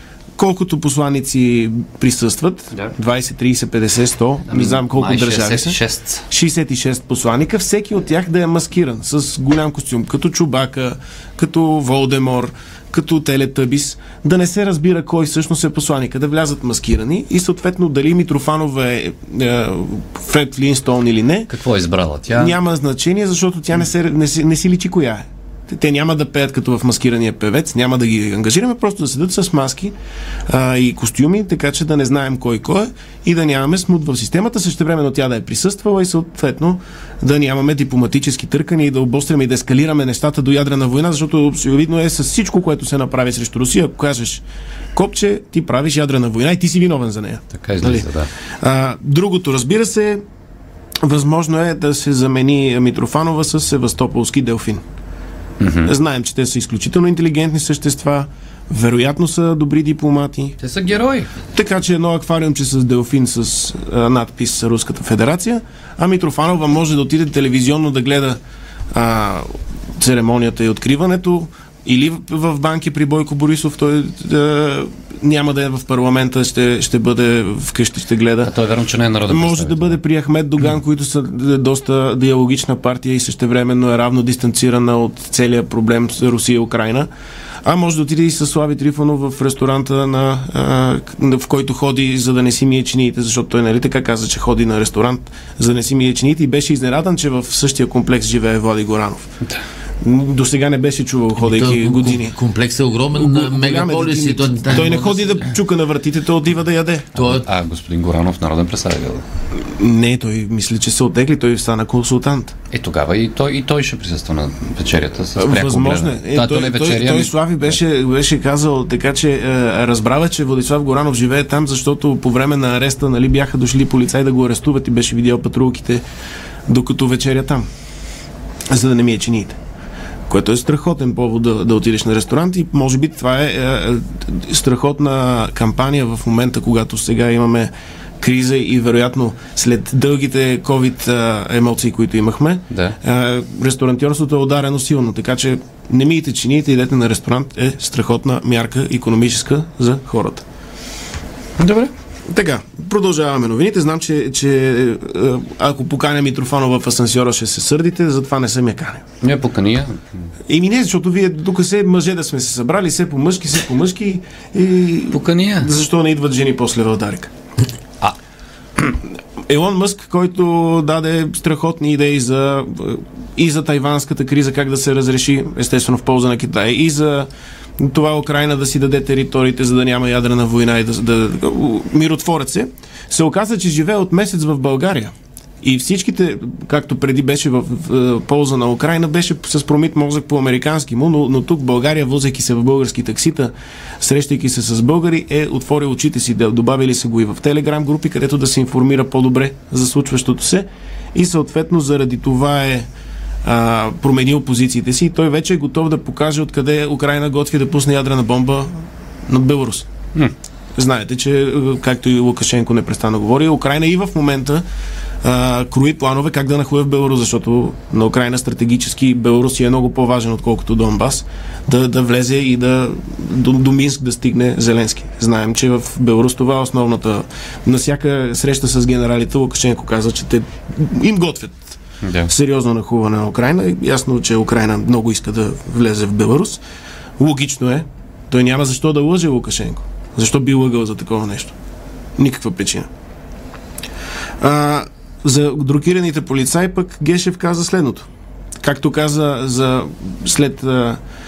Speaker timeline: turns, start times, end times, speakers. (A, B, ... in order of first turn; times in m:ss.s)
0:00.4-0:05.8 A
0:04.5-0:06.3 B
0:06.3-0:21.5 A
0:21.5-0:22.6 B
0:22.3-0:29.9 A
0:30.5-0:44.4 A
0:45.0-0:48.1 A
0:47.5-0:48.3 B
0:48.6-0:50.2 A
0:51.0-0:54.8 A
0:55.6-0:55.9 B
0:55.8-1:00.6 A
1:00.6-1:01.3 B
1:01.5-1:08.4 A
1:08.9-1:18.5 A
1:18.4-1:20.0 B
1:19.3-1:27.1 A
1:27.6-1:39.3 A
1:40.0-1:42.4 A
1:41.4-1:45.6 C
1:43.1-1:47.1 A
1:47.2-1:47.5 C
1:47.2-1:49.2 B
1:49.7-1:52.5 A
1:52.7-1:57.8 B
1:55.4-2:06.0 A
2:06.7-2:07.7 A
2:08.7-2:09.6 A
2:10.3-2:30.4 A
2:22.7-2:23.0 B
2:31.6-2:31.9 B
2:32.3-2:39.0 A
2:39.2-2:39.9 B
2:40.5-2:47.3 A
2:45.1-2:45.7 B
2:49.5-2:57.3 A
2:57.8-3:22.9 A
3:23.4-3:29.9 A
3:30.8-3:34.6 A
3:35.2-3:51.8 A
3:52.0-3:52.3 B
3:52.3-3:56.6 A
3:57.2-4:01.5 A
4:02.2-4:02.9 A
4:04.4-4:08.1 A
4:08.6-4:11.0 A